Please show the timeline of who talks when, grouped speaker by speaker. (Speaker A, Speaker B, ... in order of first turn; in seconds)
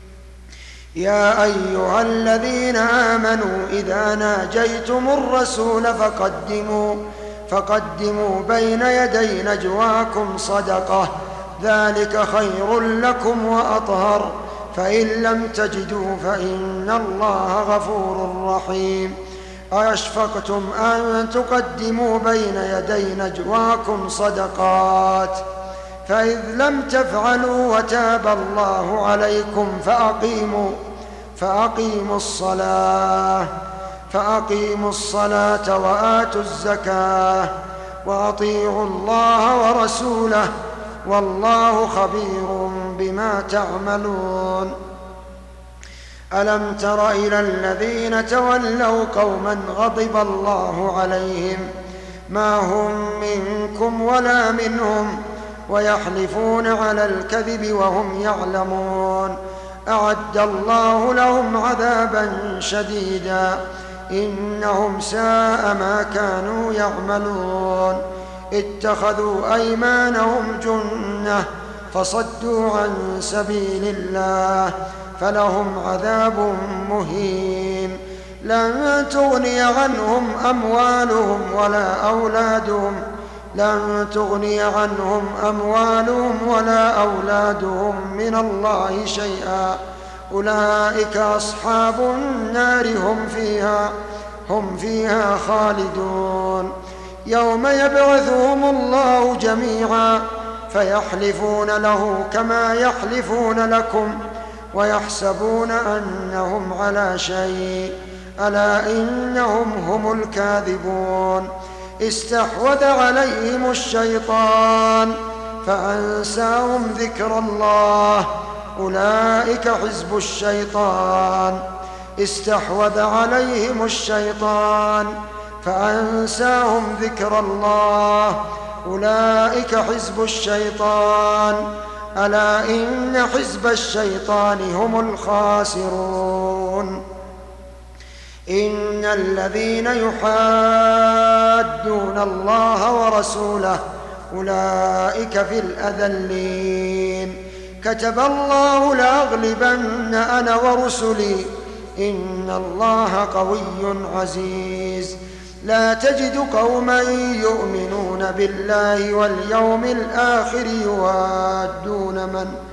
Speaker A: 1.0-19.2, 19.7-25.4, 26.1-30.8, 31.4-33.5, 34.1-37.5, 38.0-40.5, 41.0-44.8, 46.4-51.7, 52.3-59.4, 59.9-68.0, 68.5-83.0, 83.5-89.8, 90.3-93.9, 94.5-96.7, 97.3-104.2, 104.7-111.5, 112.0-121.6, 122.2-131.7, 132.2-137.0, 138.5-162.5